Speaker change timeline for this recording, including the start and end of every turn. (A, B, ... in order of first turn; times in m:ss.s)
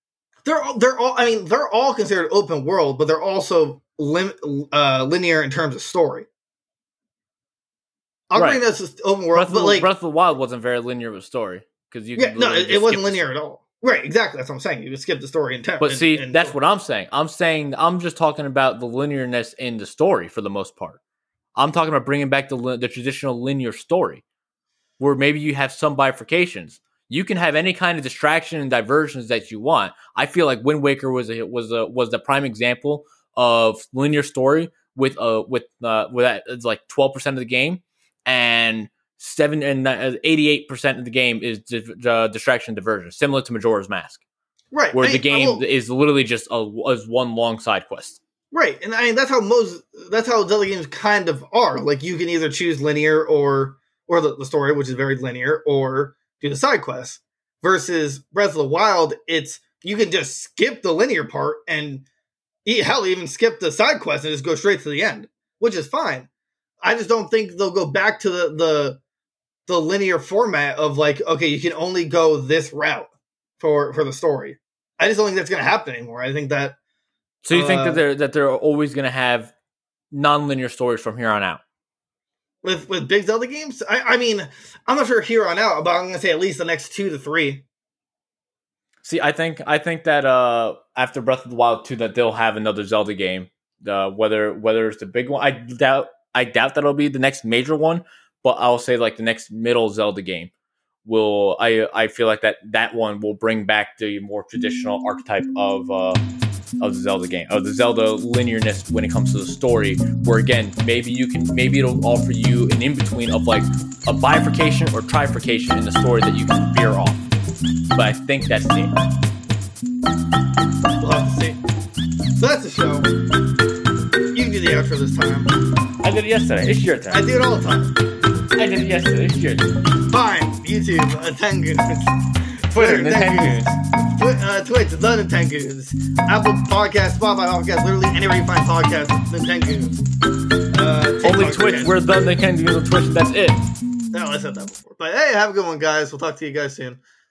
0:00.4-0:06.3 A
0:08.3-0:09.9 A
0:08.4-0:08.6 B
0:09.4-0:13.2 B
0:12.2-0:16.6 A
0:15.8-0:21.0 B
0:21.6-0:24.2 B
0:25.0-0:44.2 B
0:44.7-0:45.6 A
0:44.9-0:48.2 B
0:48.5-1:02.1 A
1:02.7-1:06.3 A
1:06.8-1:09.0 A
1:09.7-1:16.8 A
1:17.4-1:19.5 B
1:17.5-1:18.0 A
1:20.1-1:21.6 B
1:22.6-1:27.6 A
1:29.0-1:40.5 B
1:41.0-1:46.2 B
1:46.8-1:57.2 B
1:57.9-1:59.0 B
2:01.0-2:01.6 A
2:02.4-2:03.1 A
2:04.3-2:05.6 A
2:06.0-2:07.2 B
2:07.1-2:08.0 A
2:08.6-2:09.7 B
2:10.1-2:12.2 A
2:12.7-2:20.0 A
2:12.7-2:13.8 B
2:20.7-2:22.0 A
2:21.2-2:23.7 B
2:24.1-2:27.0 A